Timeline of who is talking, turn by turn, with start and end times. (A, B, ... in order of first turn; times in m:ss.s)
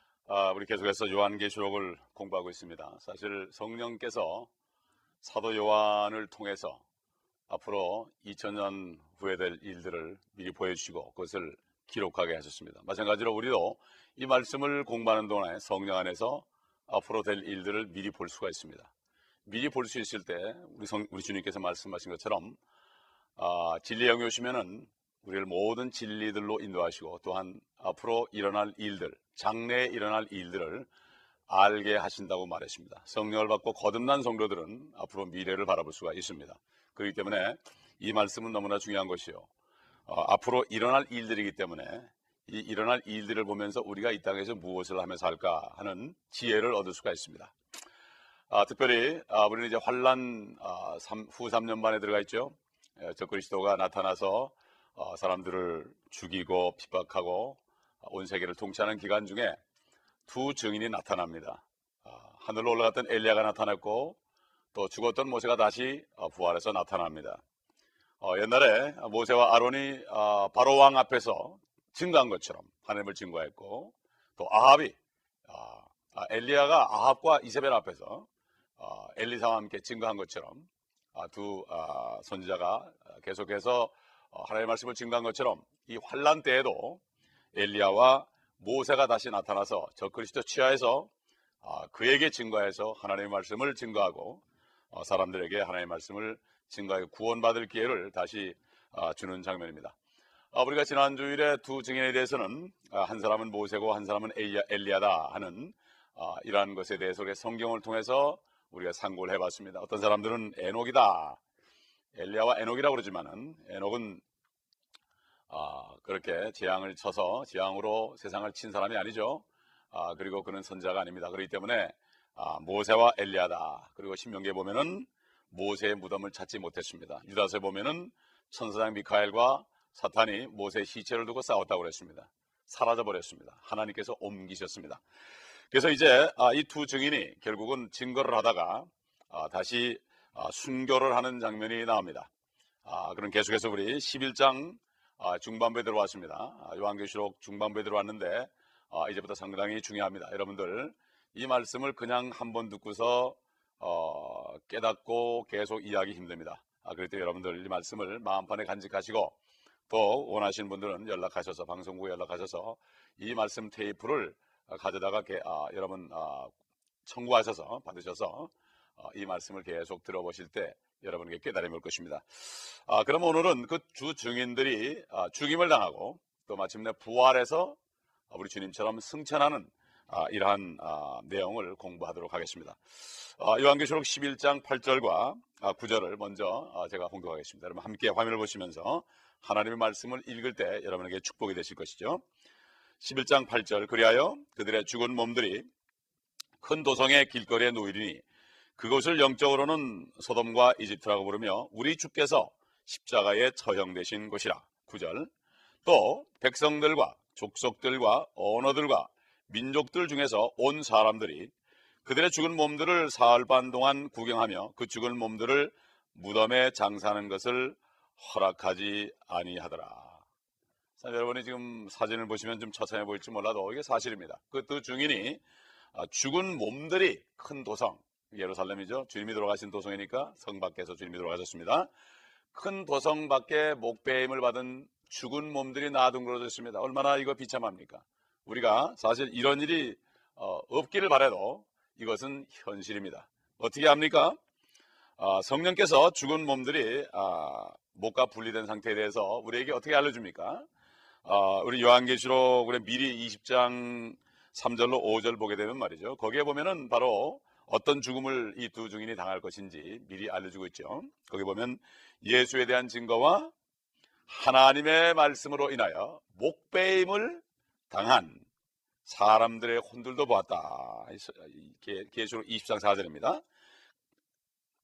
0:00.3-0:04.5 A
0:05.2-0:06.8 A
0:07.5-0:18.9 A
0:19.4-0:22.6 A
0:23.4-0:30.9 A
0:31.5-0:39.5 A
0:40.1-0:47.5 A
0:48.5-0:59.6 A
1:00.3-1:04.2 A
1:04.7-1:07.4 A
1:08.2-1:27.0 A
1:27.5-1:31.1 A
1:31.6-1:40.0 A
1:40.5-1:51.4 A
1:52.1-1:54.2 A
1:55.5-2:15.0 A
2:15.7-2:22.3 A
2:22.8-2:39.4 A
2:39.9-2:46.5 A
2:47.0-2:57.8 A
2:58.3-3:12.2 A
3:13.0-3:15.7 A
3:16.6-3:18.2 A
3:18.8-3:25.3 A
3:25.8-3:31.5 A
3:32.0-3:40.2 A
3:41.0-3:45.4 A
3:45.9-3:51.9 A
3:52.5-4:04.4 A
4:05.2-4:10.6 A
4:11.2-4:23.5 A
4:24.3-4:28.4 A
4:29.0-4:33.4 A